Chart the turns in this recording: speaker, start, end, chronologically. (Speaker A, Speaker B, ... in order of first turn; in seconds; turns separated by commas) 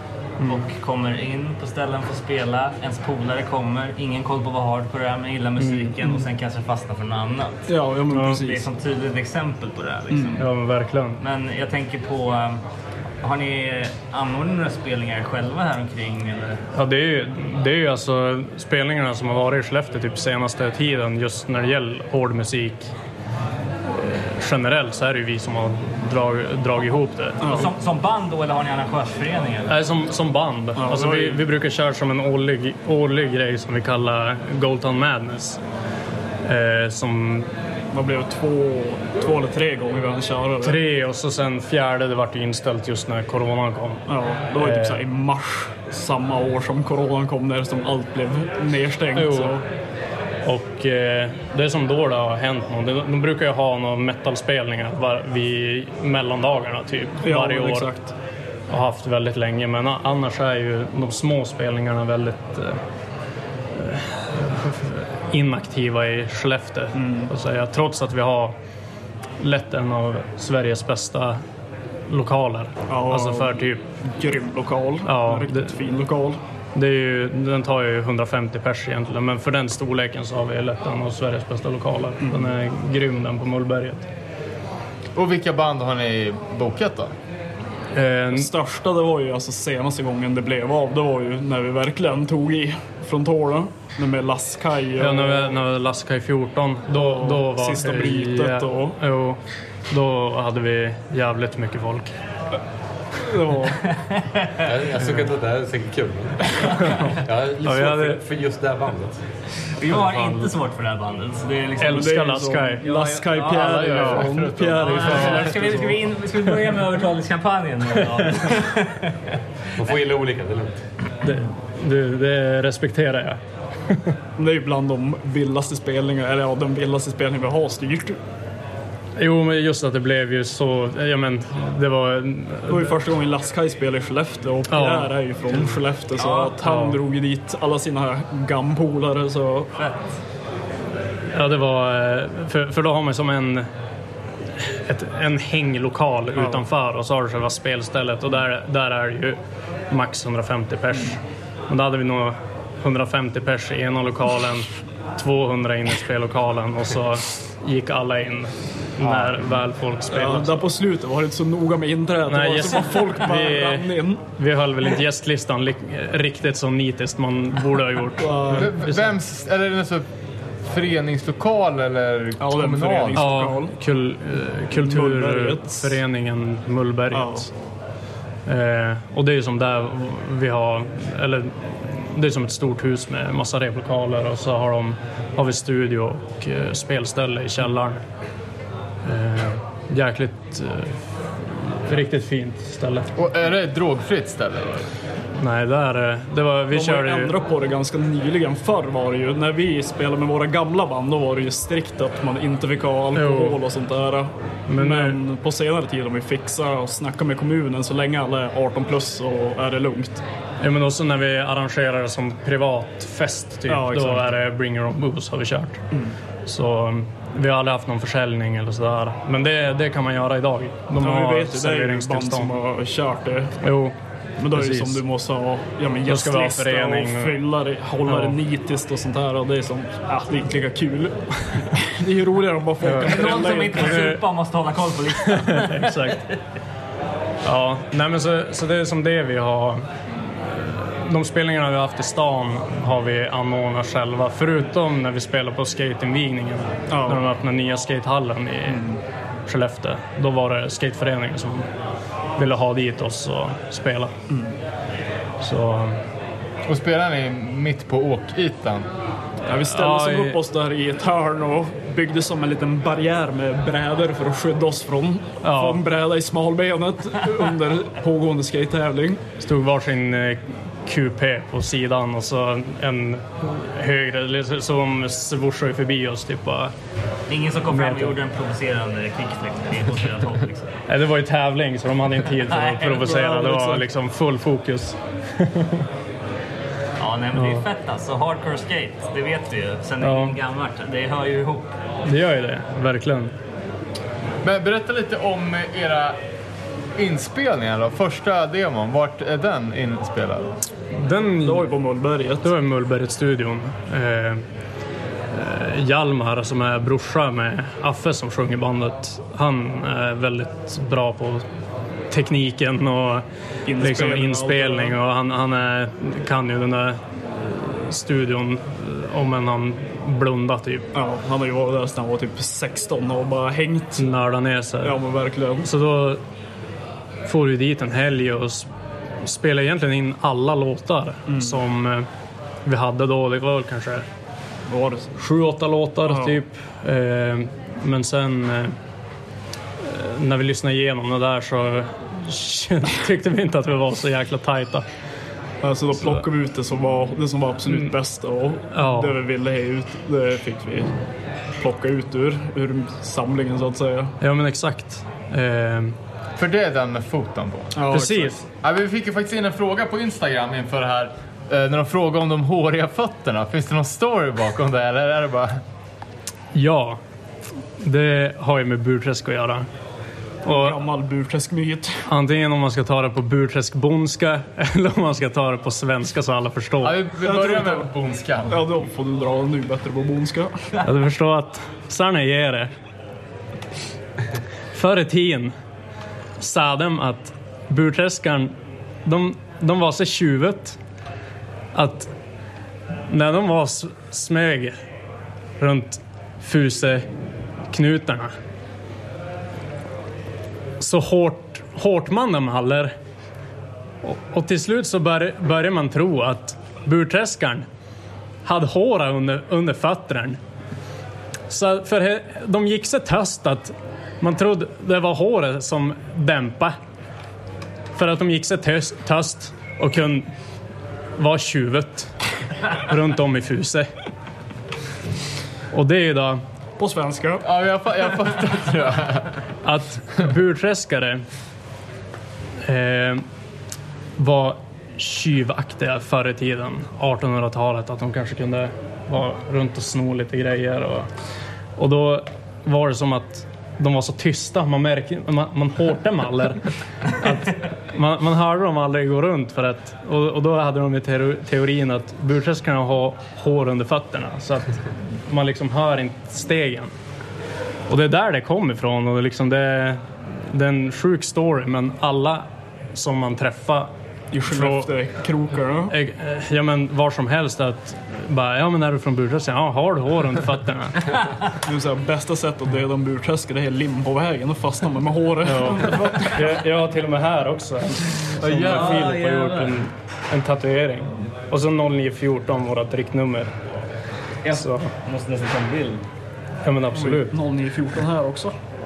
Speaker A: 0.4-0.7, Speaker B: 0.5-7.7, Speaker A: 5.6-5.9, Speaker C: 7.7-8.7, Speaker A: 8.1-8.4, Speaker B: 8.4-10.5, Speaker C: 10.1-10.4, Speaker A: 10.4-11.2, Speaker B: 11.2-12.7, Speaker B: 13.2-16.6, Speaker A: 16.8-22.9, Speaker A: 23.9-27.7, Speaker C: 27.4-27.7, Speaker B: 27.5-29.8, Speaker A: 29.7-35.6, Speaker C: 30.8-31.5, Speaker A: 36.5-37.5, Speaker C: 37.9-40.8, Speaker A: 40.6-45.0, Speaker C: 44.1-49.6, Speaker A: 49.1-49.6, Speaker A: 50.5-57.9, Speaker C: 57.2-58.1, Speaker A: 58.7-62.8, Speaker A: 63.8-68.5, Speaker C: 67.0-67.3, Speaker A: 69.4-71.4, Speaker A: 72.1-73.8, Speaker C: 72.9-76.4, Speaker A: 75.0-75.8, Speaker A: 76.8-84.1, Speaker C: 82.2-82.6, Speaker D: 85.2-87.1, Speaker A: 88.0-88.5, Speaker C: 88.3-95.6, Speaker A: 95.0-102.1, Speaker C: 96.9-99.0, Speaker C: 103.2-103.8, Speaker B: 104.0-105.3, Speaker E: 104.7-109.2, Speaker B: 106.6-107.0, Speaker A: 107.0-108.2, Speaker B: 109.8-114.0, Speaker E: 109.9-110.5, Speaker A: 111.8-112.9, Speaker C: 111.9-116.0, Speaker D: 113.5-115.5, Speaker A: 113.9-114.3, Speaker B: 114.8-119.2, Speaker A: 114.9-115.4, Speaker A: 116.5-116.8, Speaker E: 119.8-120.8, Speaker A: 121.2-123.4, Speaker C: 124.4-128.2, Speaker A: 129.2-133.0, Speaker C: 132.7-139.7, Speaker A: 134.7-135.7, Speaker B: 136.2-136.5, Speaker A: 136.6-137.0, Speaker B: 139.7-140.2, Speaker A: 141.3-143.7, Speaker A: 144.6-149.4, Speaker C: 146.3-146.7, Speaker A: 149.9-160.7, Speaker D: 159.0-159.6, Speaker C: 160.1-164.2, Speaker A: 162.3-169.1, Speaker C: 168.2-168.8, Speaker D: 168.5-170.1, Speaker D: 170.6-173.3, Speaker C: 172.4-173.8, Speaker A: 173.2-177.5, Speaker C: 174.7-176.0, Speaker C: 177.1-177.5, Speaker A: 178.5-188.0, Speaker A: 189.0-193.1, Speaker D: 193.2-194.9, Speaker A: 195.4-197.3, Speaker C: 196.7-210.2, Speaker A: 203.1-203.6, Speaker A: 204.7-205.2, Speaker A: 210.6-215.8, Speaker C: 213.7-214.4, Speaker C: 215.9-216.2, Speaker A: 216.5-222.6, Speaker C: 221.0-223.6, Speaker A: 223.6-223.9, Speaker C: 224.4-234.1, Speaker A: 224.5-225.0, Speaker A: 226.1-227.5, Speaker A: 228.1-228.4, Speaker A: 232.8-234.2, Speaker B: 233.0-236.2, Speaker A: 235.6-236.2, Speaker A: 237.4-248.9, Speaker C: 246.9-247.2, Speaker C: 248.7-249.0, Speaker A: 249.5-251.7, Speaker A: 252.4-254.1, Speaker C: 254.3-254.5, Speaker A: 255.4-256.0, Speaker D: 256.7-258.9, Speaker A: 259.4-260.4, Speaker C: 259.4-269.2, Speaker A: 265.4-265.8, Speaker A: 269.4-276.7, Speaker B: 277.3-280.7, Speaker A: 277.7-278.2, Speaker A: 280.9-285.8, Speaker B: 282.4-283.1, Speaker C: 283.0-283.9, Speaker B: 287.0-291.7, Speaker A: 287.3-287.7, Speaker A: 290.0-290.4, Speaker A: 292.1-293.3, Speaker D: 294.4-296.2, Speaker D: 297.0-300.6, Speaker A: 300.9-301.7, Speaker C: 301.4-302.6, Speaker A: 302.4-304.4, Speaker A: 305.3-311.5, Speaker A: 312.1-320.9, Speaker C: 313.7-315.0, Speaker C: 320.9-324.1, Speaker A: 324.0-325.0, Speaker C: 324.8-325.7, Speaker A: 325.6-326.2, Speaker A: 327.2-328.7, Speaker A: 329.2-332.1, Speaker C: 331.3-331.6, Speaker A: 332.7-334.1, Speaker C: 334.7-335.2, Speaker A: 335.2-338.8, Speaker C: 336.0-336.4, Speaker A: 339.8-344.9, Speaker C: 345.6-354.1, Speaker A: 345.9-346.2, Speaker A: 347.7-347.9, Speaker A: 348.7-349.2, Speaker A: 354.2-356.0, Speaker D: 356.4-358.0, Speaker C: 357.8-358.3, Speaker A: 357.9-358.4, Speaker D: 358.5-365.6, Speaker A: 366.6-367.0, Speaker A: 367.8-369.7, Speaker A: 370.4-370.8, Speaker C: 370.4-372.1, Speaker A: 372.1-377.0, Speaker D: 376.8-378.7, Speaker C: 377.2-377.9, Speaker C: 378.4-380.5, Speaker A: 380.8-382.7, Speaker A: 384.7-385.5, Speaker A: 386.4-390.8, Speaker A: 391.7-392.1, Speaker A: 393.1-394.8, Speaker A: 395.6-397.1, Speaker A: 397.7-398.3, Speaker A: 400.8-402.9, Speaker A: 404.0-407.7, Speaker A: 408.4-410.4, Speaker A: 411.5-416.8, Speaker A: 417.9-420.3, Speaker A: 421.2-422.2, Speaker A: 422.7-423.9, Speaker A: 425.7-426.4, Speaker C: 426.8-427.5, Speaker D: 427.4-429.3, Speaker A: 429.6-431.2, Speaker A: 432.6-433.2, Speaker A: 434.2-441.1, Speaker A: 441.8-456.9, Speaker A: 457.9-463.9, Speaker C: 464.3-465.9, Speaker A: 464.4-465.0, Speaker A: 465.9-471.1, Speaker C: 471.6-476.6, Speaker A: 475.4-483.5, Speaker B: 478.4-479.8, Speaker D: 478.5-479.1, Speaker B: 484.4-486.1, Speaker A: 484.5-484.9, Speaker A: 486.6-487.4, Speaker C: 486.9-488.6